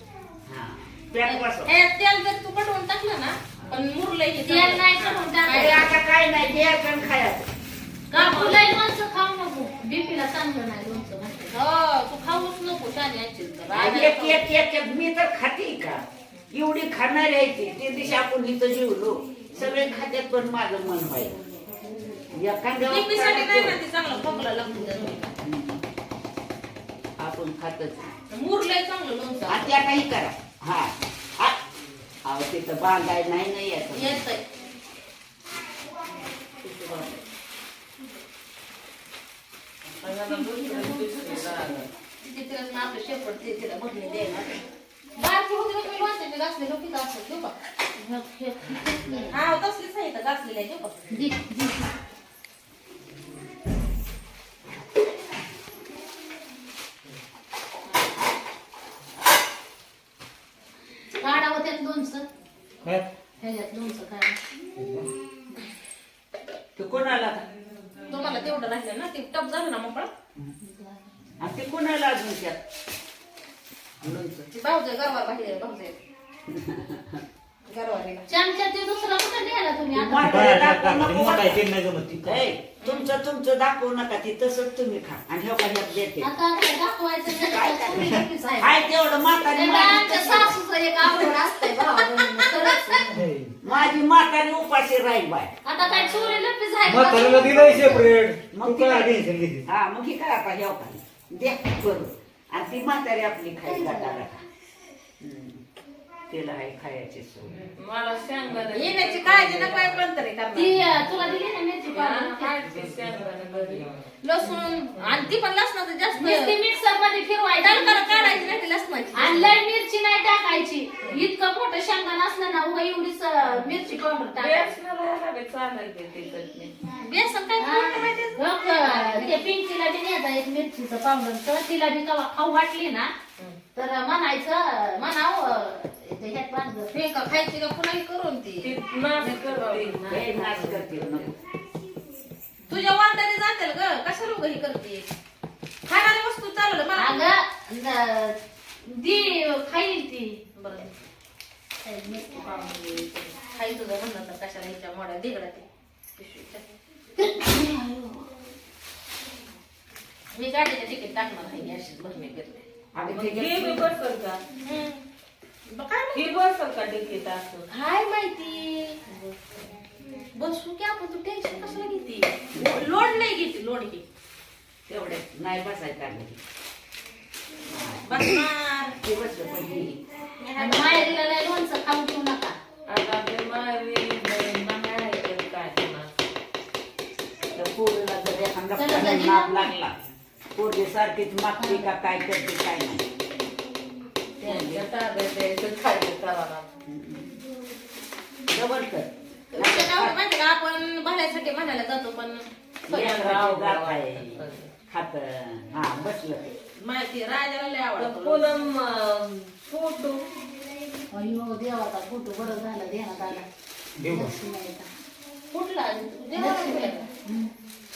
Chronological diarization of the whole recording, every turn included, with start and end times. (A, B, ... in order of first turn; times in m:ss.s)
0:00.5-0:01.7 A
0:01.2-0:05.9 B
0:04.5-0:05.9 C
0:05.5-0:07.5 A
0:08.1-0:08.7 B
0:08.1-0:11.6 C
0:11.5-0:14.6 B
0:13.7-0:21.4 A
0:22.3-0:23.8 A
0:22.8-0:25.4 B
0:25.4-0:25.8 A
0:27.2-0:28.2 A
0:28.3-0:29.7 B
0:29.5-0:31.6 A
0:32.2-0:34.3 A
0:33.9-0:34.4 B
0:40.0-0:41.9 D
0:40.3-0:41.5 C
0:42.2-0:44.6 B
0:45.2-0:47.5 B
0:48.0-0:49.4 C
0:49.3-0:51.0 B
0:51.1-0:51.8 C
1:01.2-1:02.2 C
1:02.8-1:03.1 E
1:03.4-1:04.4 C
1:04.8-1:05.1 E
1:06.8-1:07.4 A
1:08.1-1:10.1 B
1:10.6-1:11.0 C
1:11.4-1:12.6 A
1:14.0-1:14.5 A
1:14.5-1:16.0 B
1:16.5-1:17.2 A
1:17.7-1:18.3 B
1:18.3-1:20.5 C
1:19.9-1:21.6 A
1:20.2-1:22.4 E
1:22.2-1:26.3 A
1:22.8-1:23.1 B
1:26.2-1:33.1 C
1:27.5-1:30.6 A
1:32.0-1:33.0 B
1:33.1-1:33.6 E
1:33.6-1:35.5 A
1:35.6-1:38.1 C
1:36.9-1:39.7 E
1:38.5-1:44.4 A
1:43.6-1:44.2 C
1:45.2-1:45.6 A
1:46.3-1:47.7 A
1:47.8-1:50.1 D
1:48.7-1:50.8 B
1:50.5-1:52.6 C
1:51.9-1:54.0 D
1:54.2-1:56.6 B
1:55.0-1:55.3 D
1:56.1-1:58.5 C
1:57.6-1:59.6 B
1:59.1-2:04.8 C
2:04.4-2:06.7 D
2:07.0-2:09.4 B
2:07.6-2:13.1 C
2:13.8-2:17.0 C
2:16.9-2:20.0 B
2:18.6-2:21.4 D
2:20.1-2:21.4 A
2:22.7-2:25.1 B
2:25.9-2:27.3 B
2:27.0-2:30.4 C
2:30.6-2:31.0 B
2:31.8-2:33.3 C
2:33.4-2:35.7 B
2:36.2-2:36.7 B
2:37.2-2:38.1 C
2:40.3-2:42.7 B
2:42.9-2:43.9 A
2:43.0-2:44.4 D
2:44.6-2:45.0 B
2:45.7-2:46.3 B
2:46.1-2:47.7 D
2:47.7-2:49.0 B
2:50.3-2:54.0 B
2:52.5-2:52.8 A
2:54.9-2:56.4 A
2:57.7-2:58.3 A
2:58.0-2:59.0 B
2:59.0-3:00.0 A
3:00.4-3:01.2 B
3:00.6-3:02.6 C
3:02.9-3:06.1 D
3:07.5-3:10.0 A
3:08.8-3:09.7 C
3:10.6-3:13.1 A
3:11.6-3:11.9 C
3:14.4-3:16.7 D
3:14.4-3:14.9 A
3:16.9-3:17.4 A
3:18.5-3:20.2 A
3:19.5-3:23.3 B
3:22.9-3:26.6 A
3:23.0-3:24.7 D
3:26.8-3:28.5 B
3:28.0-3:30.2 D
3:31.1-3:33.4 C
3:34.0-3:34.3 E
3:34.0-3:34.9 C
3:35.5-3:37.1 B
3:36.4-3:37.5 C